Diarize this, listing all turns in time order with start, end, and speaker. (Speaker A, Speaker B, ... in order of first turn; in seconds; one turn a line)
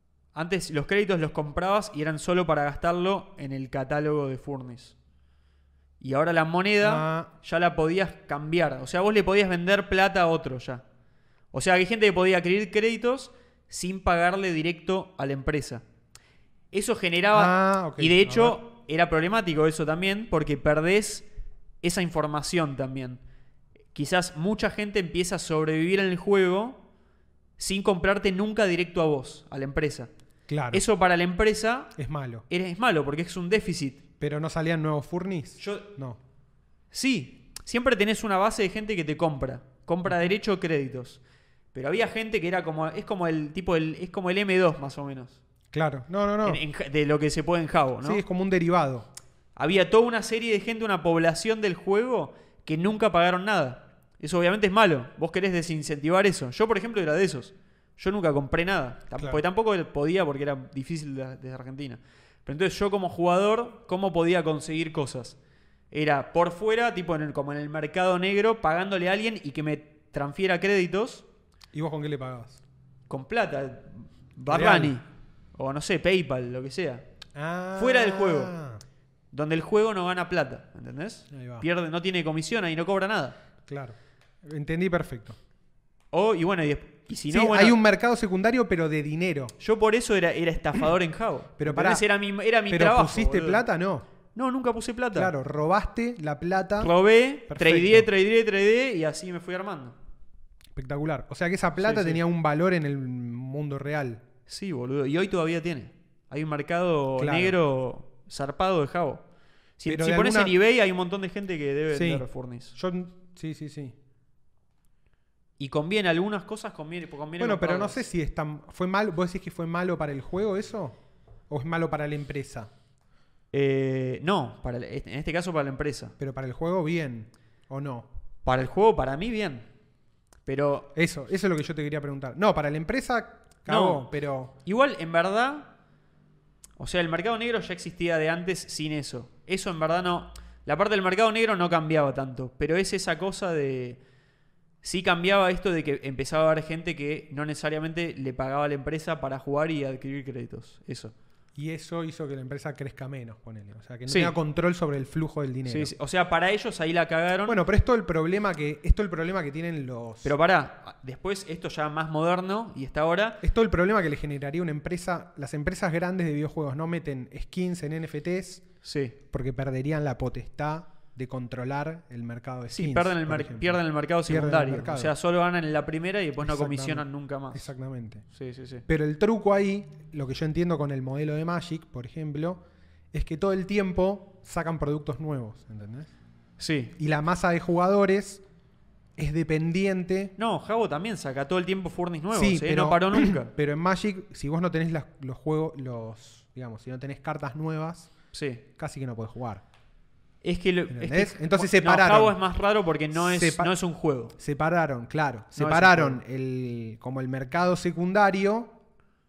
Speaker A: 0.3-5.0
Speaker A: 6.0-10.8
Speaker B: 6.8-7.3
Speaker A: 11.5-15.8
Speaker A: 16.7-21.2
Speaker B: 17.3-18.6
Speaker A: 21.8-23.2
Speaker A: 23.9-26.8
Speaker A: 27.6-30.1
Speaker B: 30.5-30.8
Speaker A: 30.7-31.9
Speaker B: 31.9-32.4
Speaker A: 32.5-34.0
Speaker B: 34.2-36.2
Speaker A: 35.6-35.9
Speaker A: 36.9-41.2
Speaker A: 41.7-45.4
Speaker B: 45.7-46.6
Speaker A: 46.4-48.2
Speaker B: 48.0-49.1
Speaker A: 49.5-65.4
Speaker B: 59.2-59.4
Speaker A: 65.9-71.2
Speaker B: 71.7-72.6
Speaker A: 73.1-77.0
Speaker B: 74.5-75.0
Speaker B: 77.3-78.8
Speaker A: 77.8-78.5
Speaker A: 79.3-83.4
Speaker B: 81.3-81.7
Speaker B: 83.7-85.4
Speaker A: 86.1-87.8
Speaker B: 87.3-89.5
Speaker A: 89.6-93.6
Speaker B: 91.6-92.0
Speaker B: 92.7-94.0
Speaker A: 94.3-95.3
Speaker B: 95.1-96.9
Speaker A: 96.8-100.0
Speaker B: 97.5-98.1
Speaker B: 100.7-104.2
Speaker A: 101.8-102.2
Speaker A: 104.5-109.2
Speaker B: 107.2-107.6
Speaker A: 109.8-112.7
Speaker B: 109.8-110.5
Speaker B: 111.9-113.9
Speaker A: 115.6-118.0
Speaker B: 117.4-121.0
Speaker B: 121.5-122.7
Speaker A: 123.5-126.1
Speaker B: 126.2-128.1
Speaker A: 128.4-129.7
Speaker A: 130.4-130.9
Speaker B: 130.9-134.5
Speaker A: 133.7-134.1
Speaker A: 134.6-135.7
Speaker A: 136.8-144.0
Speaker A: 144.8-151.1
Speaker B: 151.6-155.9
Speaker A: 154.1-154.3
Speaker A: 155.7-157.6
Speaker B: 157.4-160.3
Speaker A: 160.2-163.4
Speaker B: 163.4-168.6
Speaker A: 168.8-169.2
Speaker B: 169.3-175.1
Speaker A: 172.7-177.7
Speaker B: 176.4-178.2
Speaker A: 178.3-178.8
Speaker B: 178.9-182.6
Speaker B: 183.1-186.1
Speaker A: 186.6-186.9
Speaker B: 187.0-188.4
Speaker B: 189.2-190.3
Speaker A: 190.4-193.5
Speaker B: 192.3-198.1
Speaker A: 198.3-198.6
Speaker B: 198.7-199.6
Speaker A: 200.4-204.3
Speaker B: 200.9-202.4
Speaker B: 203.1-203.7
Speaker B: 204.3-208.7
Speaker A: 205.6-206.2